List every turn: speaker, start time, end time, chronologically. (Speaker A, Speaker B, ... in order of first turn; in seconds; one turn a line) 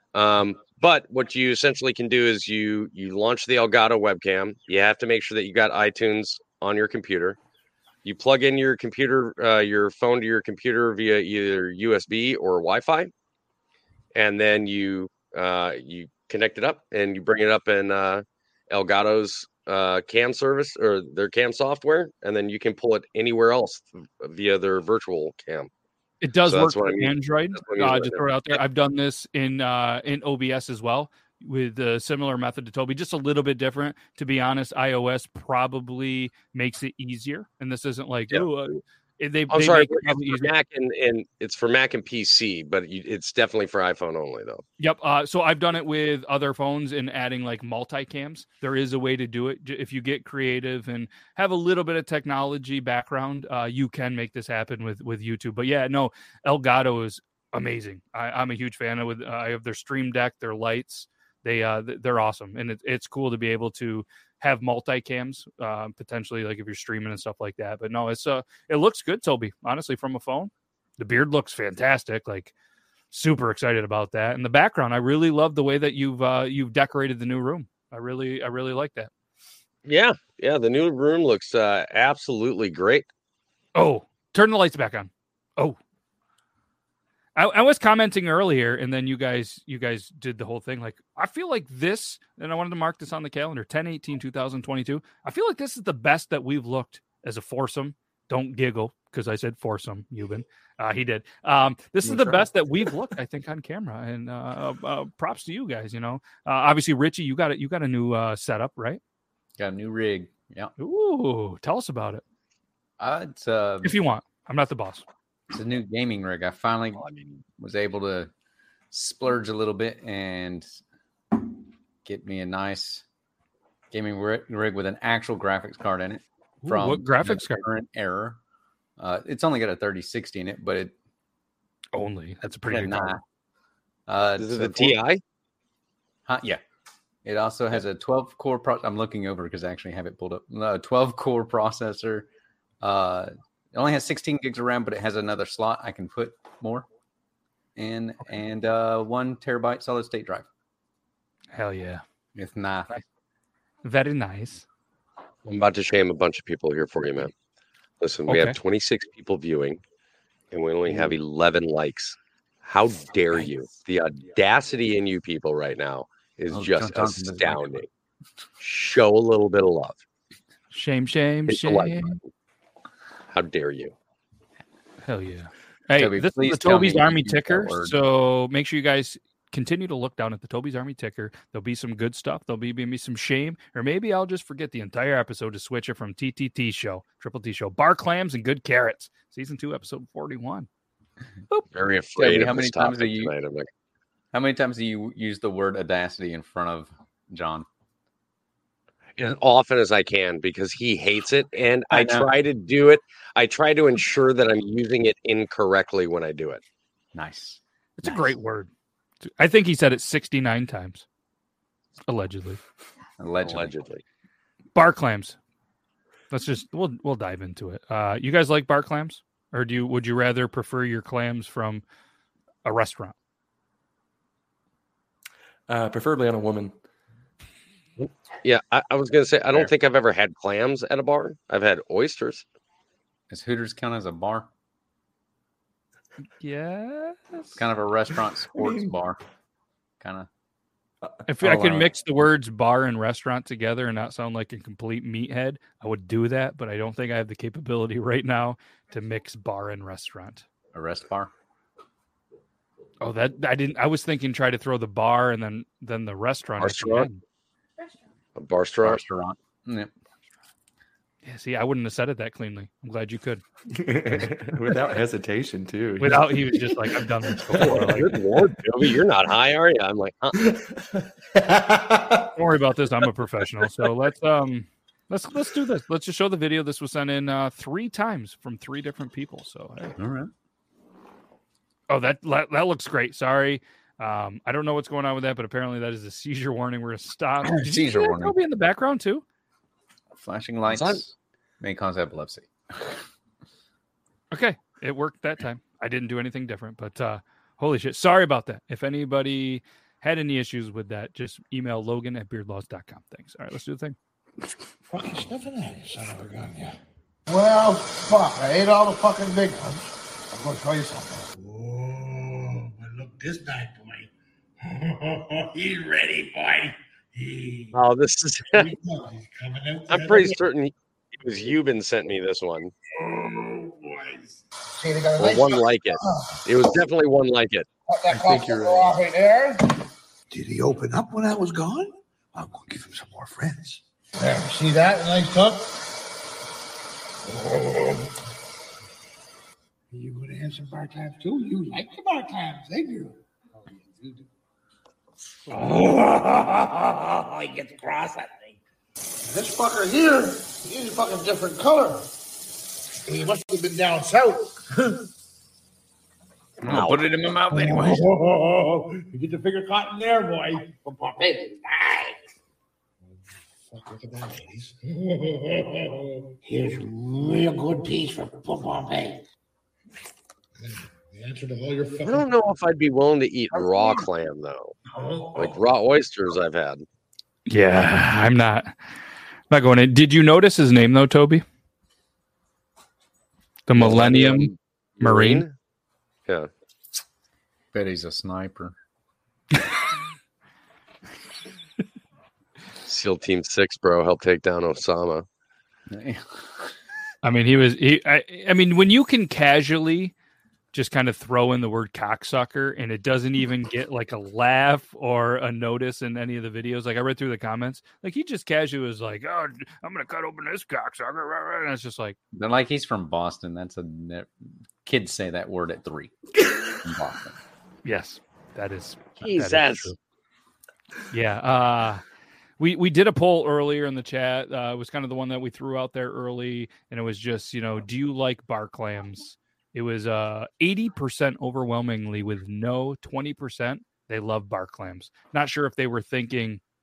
Speaker A: 0.1-7.4
Speaker A: 8.0-13.1
Speaker A: 14.1-25.7
Speaker B: 26.2-40.5
Speaker A: 26.5-28.6
Speaker A: 39.5-44.6
Speaker B: 44.8-72.5
Speaker B: 73.1-79.1
Speaker A: 79.9-83.1
Speaker B: 83.8-85.8
Speaker B: 87.4-109.0
Speaker C: 102.0-102.5
Speaker D: 109.6-110.7
Speaker B: 110.8-112.2
Speaker D: 113.0-114.0
Speaker B: 113.8-115.0
Speaker D: 115.5-117.0
Speaker A: 117.0-117.3
Speaker D: 117.6-118.3
Speaker D: 118.9-120.8
Speaker D: 122.0-123.0
Speaker D: 123.9-128.4
Speaker B: 126.6-127.6
Speaker D: 129.0-130.9
Speaker B: 131.9-133.2
Speaker D: 132.7-133.2
Speaker D: 134.1-135.0
Speaker A: 134.4-135.2
Speaker D: 136.3-136.6
Speaker D: 137.2-142.3
Speaker D: 142.8-146.9
Speaker D: 147.8-150.5
Speaker B: 151.5-152.0
Speaker D: 152.4-152.9
Speaker B: 153.8-154.7
Speaker A: 155.5-157.3
Speaker A: 158.0-159.8
Speaker B: 158.3-158.6
Speaker A: 160.5-167.9
Speaker D: 166.5-167.8
Speaker A: 168.6-170.0
Speaker B: 170.7-172.2
Speaker A: 171.5-172.2
Speaker A: 173.3-173.9
Speaker B: 175.0-190.7
Speaker D: 175.9-178.0
Speaker A: 191.7-193.7
Speaker D: 192.2-193.3
Speaker D: 194.3-197.7
Speaker A: 199.2-206.6
Speaker D: 201.9-202.3
Speaker D: 207.1-208.3
Speaker B: 208.0-208.7
Speaker B: 209.2-211.1
Speaker B: 212.1-212.6
Speaker D: 213.2-213.8
Speaker A: 213.4-214.0
Speaker B: 214.8-215.4
Speaker B: 216.3-221.8
Speaker B: 222.7-223.2
Speaker C: 225.7-226.7
Speaker A: 228.0-232.4
Speaker D: 233.3-234.5
Speaker B: 236.4-237.6
Speaker D: 237.6-239.2
Speaker C: 238.6-238.9
Speaker D: 240.0-240.3
Speaker B: 241.3-250.5
Speaker D: 241.4-241.9
Speaker D: 250.7-251.3
Speaker B: 253.0-257.2
Speaker A: 256.6-257.1
Speaker A: 258.4-259.0
Speaker D: 258.8-259.9
Speaker B: 261.2-263.4
Speaker C: 263.7-268.1
Speaker B: 266.0-268.1
Speaker A: 267.6-270.4
Speaker C: 270.4-272.3
Speaker B: 272.4-279.9
Speaker D: 280.0-280.3
Speaker B: 281.9-289.2
Speaker D: 287.5-288.4
Speaker D: 290.1-293.0
Speaker A: 290.7-291.0
Speaker B: 294.3-304.0
Speaker E: 304.9-306.8
Speaker E: 307.3-314.1
Speaker E: 314.6-317.7
Speaker A: 317.7-318.7
Speaker E: 318.5-320.4
Speaker A: 319.9-322.7
Speaker E: 322.9-326.8
Speaker A: 325.2-327.7
Speaker E: 327.9-329.8
Speaker C: 328.2-328.9
Speaker E: 330.3-335.6
Speaker E: 337.3-338.1
Speaker E: 339.9-343.2
Speaker E: 343.8-344.2
Speaker E: 345.5-348.5
Speaker E: 349.2-352.1
Speaker E: 353.1-355.0
Speaker D: 356.6-358.0
Speaker A: 356.7-357.0
Speaker E: 357.5-362.2
Speaker E: 363.7-369.2
Speaker E: 371.1-372.3
Speaker A: 372.0-374.8
Speaker E: 373.6-374.0
Speaker E: 374.9-375.6
Speaker A: 375.4-376.9
Speaker B: 377.5-378.8
Speaker B: 379.5-381.4
Speaker B: 383.7-385.5
Speaker A: 383.8-385.5
Speaker D: 387.7-388.7
Speaker A: 392.9-395.2
Speaker D: 395.9-396.7
Speaker B: 397.2-400.1
Speaker B: 400.7-412.2
Speaker D: 412.3-414.3
Speaker D: 414.8-416.1
Speaker D: 416.8-417.4
Speaker B: 417.9-420.0
Speaker B: 421.1-422.1
Speaker B: 422.6-436.6